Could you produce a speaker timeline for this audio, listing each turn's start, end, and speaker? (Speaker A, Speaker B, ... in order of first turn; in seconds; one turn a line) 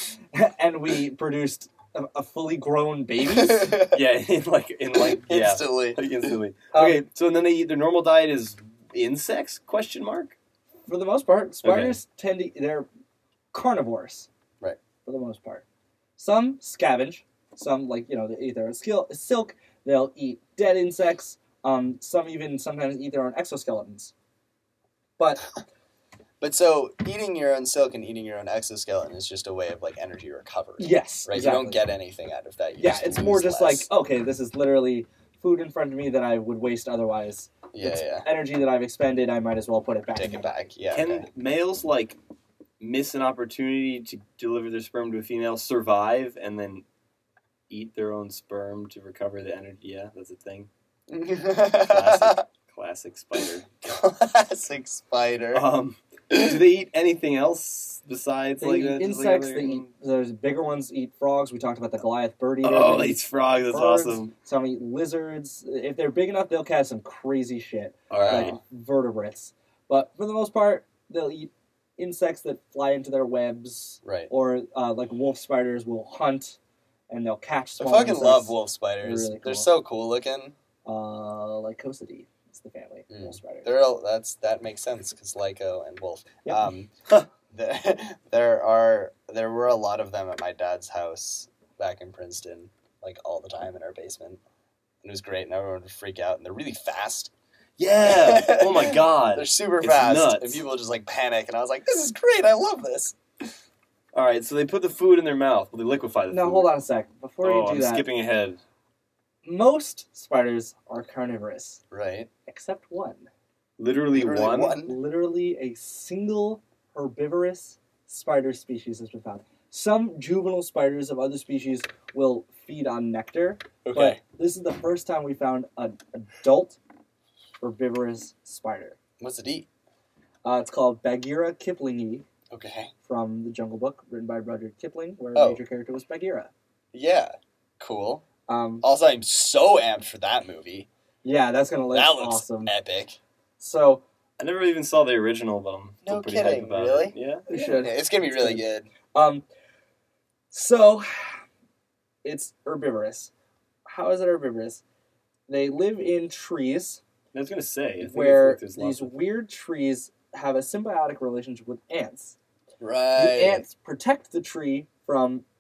Speaker A: 0.3-3.8
Speaker B: 3.3-4.0
Speaker C: 3.9-10.4
Speaker B: 4.9-6.2
Speaker A: 6.7-7.0
Speaker A: 10.9-12.9
Speaker C: 11.6-11.9
Speaker A: 13.5-14.3
Speaker A: 15.1-15.6
Speaker A: 16.2-24.1
Speaker A: 25.2-25.5
Speaker B: 26.4-33.9
Speaker A: 30.8-31.9
Speaker A: 32.8-40.5
Speaker B: 37.7-38.3
Speaker B: 40.1-41.3
Speaker C: 40.9-42.2
Speaker C: 42.8-46.8
Speaker C: 47.7-50.7
Speaker B: 51.1-52.4
Speaker C: 51.9-53.7
Speaker B: 53.8-55.7
Speaker C: 55.5-59.9
Speaker B: 56.3-56.6
Speaker A: 58.6-76.6
Speaker C: 62.6-64.3
Speaker C: 68.1-68.6
Speaker B: 68.1-68.6
Speaker B: 74.0-74.3
Speaker A: 77.1-79.7
Speaker B: 77.8-80.5
Speaker A: 80.8-83.8
Speaker B: 83.1-86.9
Speaker A: 86.5-86.7
Speaker B: 87.5-94.4
Speaker B: 95.0-97.3
Speaker C: 97.8-100.7
Speaker B: 98.0-103.2
Speaker C: 104.1-106.7
Speaker A: 106.3-108.0
Speaker C: 107.4-108.6
Speaker A: 109.4-111.8
Speaker B: 111.9-112.3
Speaker A: 112.5-113.3
Speaker C: 113.8-114.8
Speaker B: 114.1-115.0
Speaker A: 114.8-126.8
Speaker B: 123.8-124.2
Speaker A: 127.6-129.0
Speaker B: 129.2-129.7
Speaker A: 130.4-132.3
Speaker B: 132.5-132.9
Speaker A: 133.1-136.5
Speaker B: 135.3-135.6
Speaker B: 136.9-138.3
Speaker A: 138.5-138.8
Speaker B: 138.8-140.9
Speaker A: 141.2-142.7
Speaker B: 141.9-143.2
Speaker A: 143.6-144.0
Speaker C: 144.4-147.5
Speaker B: 146.1-148.9
Speaker A: 147.5-148.6
Speaker A: 149.1-149.4
Speaker A: 150.5-151.4
Speaker A: 152.2-153.3
Speaker A: 153.9-154.8
Speaker A: 155.5-157.0
Speaker C: 157.3-159.1
Speaker A: 158.0-162.4
Speaker B: 162.8-163.7
Speaker A: 163.2-165.4